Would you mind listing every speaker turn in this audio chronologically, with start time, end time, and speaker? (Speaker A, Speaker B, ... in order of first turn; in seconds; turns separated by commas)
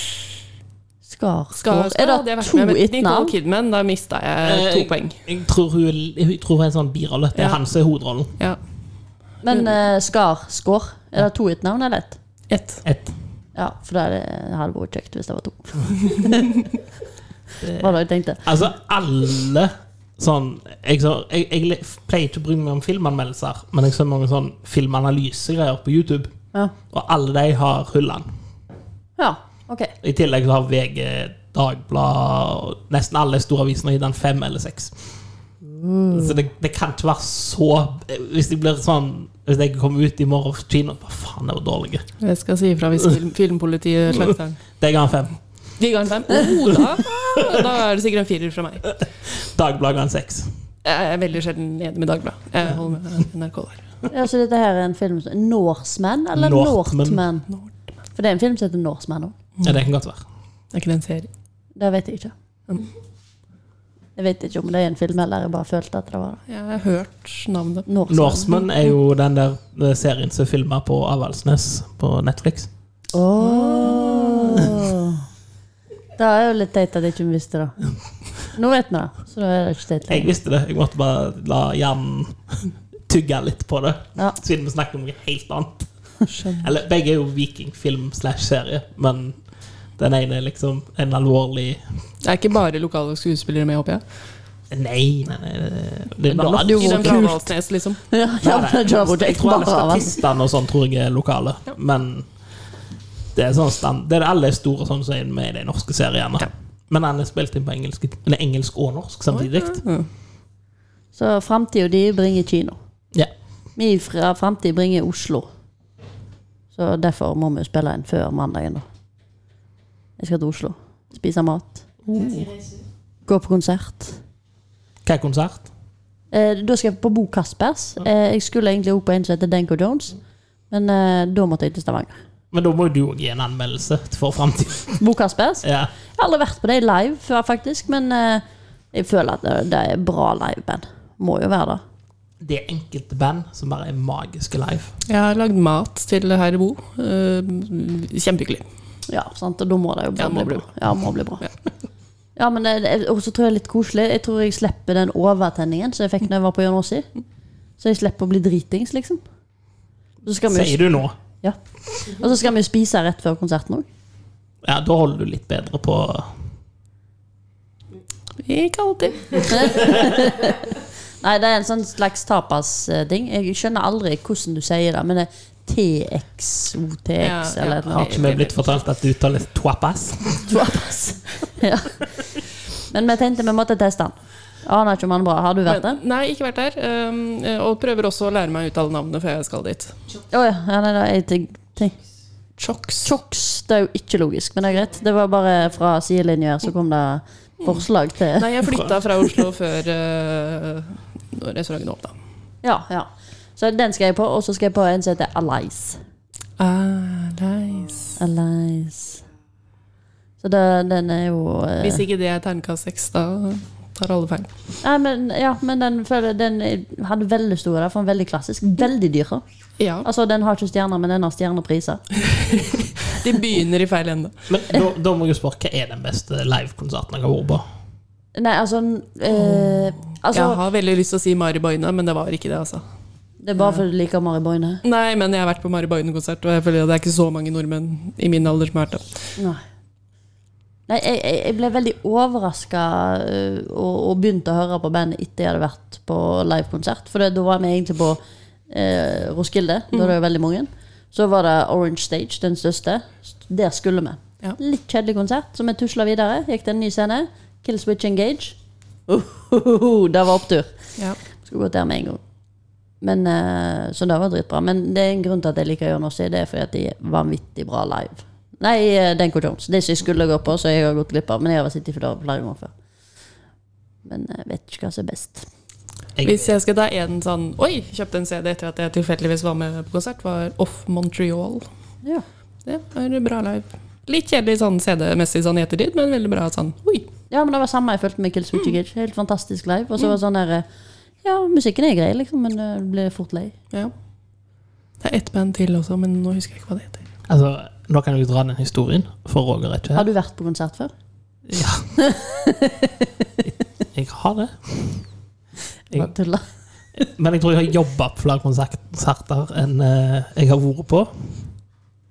Speaker A: 1.1-3.3, Speaker B: 1.6-5.2, Speaker C: 4.4-8.3, Speaker B: 7.3-7.6, Speaker A: 9.4-12.2, Speaker B: 9.5-9.8, Speaker B: 12.5-12.8, Speaker C: 12.8-13.1, Speaker A: 13.6-16.7, Speaker C: 17.6-26.3, Speaker A: 17.8-18.4, Speaker C: 26.9-28.3, Speaker A: 29.2-29.9, Speaker C: 30.0-35.0, Speaker A: 35.6-36.4, Speaker C: 36.1-42.1, Speaker B: 42.2-44.6, Speaker C: 44.2-45.4, Speaker B: 45.8-48.9, Speaker C: 46.7-47.7, Speaker C: 48.8-50.5, Speaker B: 50.8-53.9, Speaker A: 54.1-57.5, Speaker C: 56.4-57.2, Speaker A: 58.1-59.4, Speaker C: 59.6-60.2, Speaker B: 60.7-61.3, Speaker A: 61.8-62.3, Speaker A: 64.2-66.4, Speaker B: 66.5-67.9, Speaker A: 67.9-68.5, Speaker C: 68.1-72.7, Speaker A: 73.1-75.2, Speaker B: 73.4-74.6, Speaker A: 76.2-77.8, Speaker A: 78.5-80.3, Speaker C: 80.1-85.9, Speaker B: 86.3-86.7, Speaker C: 86.6-89.4, Speaker C: 90.0-91.8, Speaker B: 92.2-94.0, Speaker C: 94.7-97.3, Speaker A: 96.3-97.5, Speaker B: 96.5-98.0, Speaker A: 98.1-100.2, Speaker C: 98.4-102.3, Speaker C: 103.3-109.8, Speaker B: 109.3-110.1, Speaker A: 111.1-112.8, Speaker A: 113.8-115.5, Speaker A: 116.7-118.8, Speaker A: 120.2-122.3, Speaker C: 122.1-122.5, Speaker A: 123.3-124.2, Speaker C: 125.0-125.7, Speaker A: 126.3-130.2, Speaker A: 130.7-132.2, Speaker C: 132.5-135.0, Speaker A: 135.0-141.8, Speaker C: 135.6-135.9, Speaker C: 142.4-144.9, Speaker B: 145.1-148.6, Speaker A: 149.1-151.4, Speaker B: 150.2-150.7, Speaker A: 152.4-157.1, Speaker A: 157.8-159.2, Speaker A: 160.2-160.8, Speaker C: 160.5-161.2, Speaker A: 161.4-163.9, Speaker C: 164.6-166.3, Speaker B: 168.4-169.8, Speaker A: 169.5-178.2, Speaker B: 177.2-178.8, Speaker C: 177.9-180.5, Speaker A: 180.5-182.1, Speaker A: 182.9-186.0, Speaker B: 185.7-189.9, Speaker A: 190.3-191.9, Speaker B: 192.6-193.1, Speaker A: 193.0-198.5, Speaker B: 198.4-202.2, Speaker A: 202.6-206.0, Speaker B: 206.6-208.2, Speaker A: 208.2-209.2, Speaker A: 210.4-212.0, Speaker B: 211.8-214.5, Speaker A: 214.8-219.4, Speaker B: 219.8-220.1, Speaker A: 220.0-222.0, Speaker B: 222.3-224.4, Speaker C: 224.5-227.7, Speaker A: 228.3-230.6, Speaker B: 230.3-232.8, Speaker A: 233.4-234.8, Speaker B: 234.8-239.1, Speaker A: 239.4-239.6, Speaker A: 240.9-258.6, Speaker A: 259.1-260.7, Speaker A: 261.4-262.2, Speaker A: 263.0-272.7, Speaker A: 274.1-275.5, Speaker C: 276.2-276.5, Speaker B: 276.2-281.7, Speaker B: 282.7-287.1, Speaker A: 287.3-290.7, Speaker A: 291.2-293.5, Speaker B: 295.0-297.1, Speaker C: 297.3-300.1, Speaker A: 299.9-300.9, Speaker C: 301.5-301.9, Speaker A: 302.0-303.1, Speaker C: 303.9-305.1, Speaker A: 305.9-306.5, Speaker C: 307.0-311.3